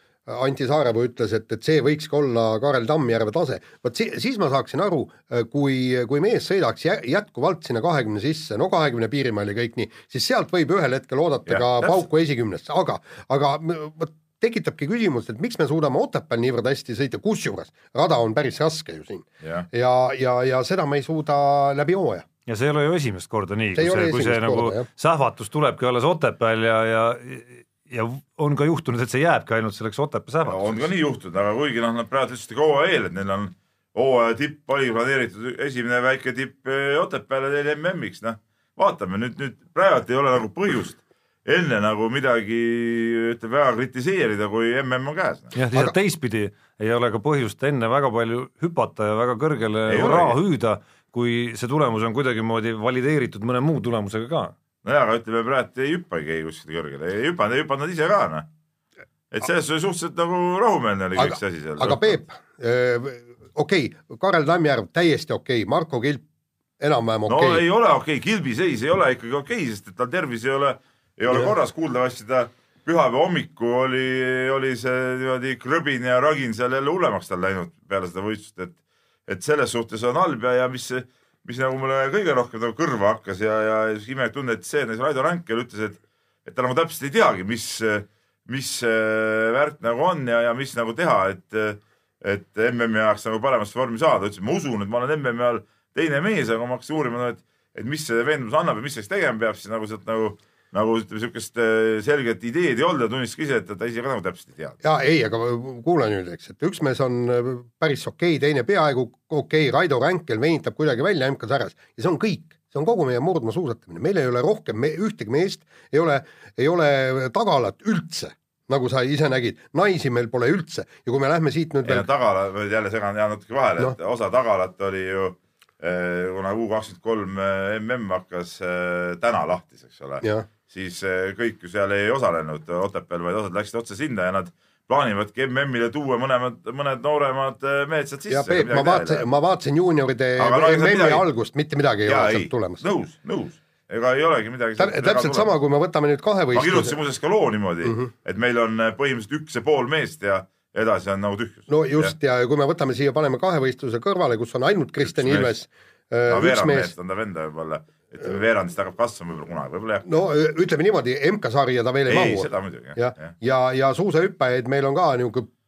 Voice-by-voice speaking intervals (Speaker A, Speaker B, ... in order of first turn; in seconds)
Speaker A: 0.3-22.3, 23.8-24.9, 61.2-66.2, 66.8-67.6, 104.8-122.1, 130.2-130.5, 138.3-142.8, 144.8-147.0, 147.8-148.1, 151.7-156.9, 160.1-165.5
Speaker B: 11.5-12.0, 19.4-19.7, 30.4-45.5, 49.9-50.4, 54.8-58.5, 59.3-62.2, 67.3-104.8, 121.8-139.3, 140.4-141.2, 142.1-145.5, 146.5-152.1, 155.0-155.5, 156.3-160.1, 162.1-163.4
Speaker C: 22.5-30.9, 45.5-54.5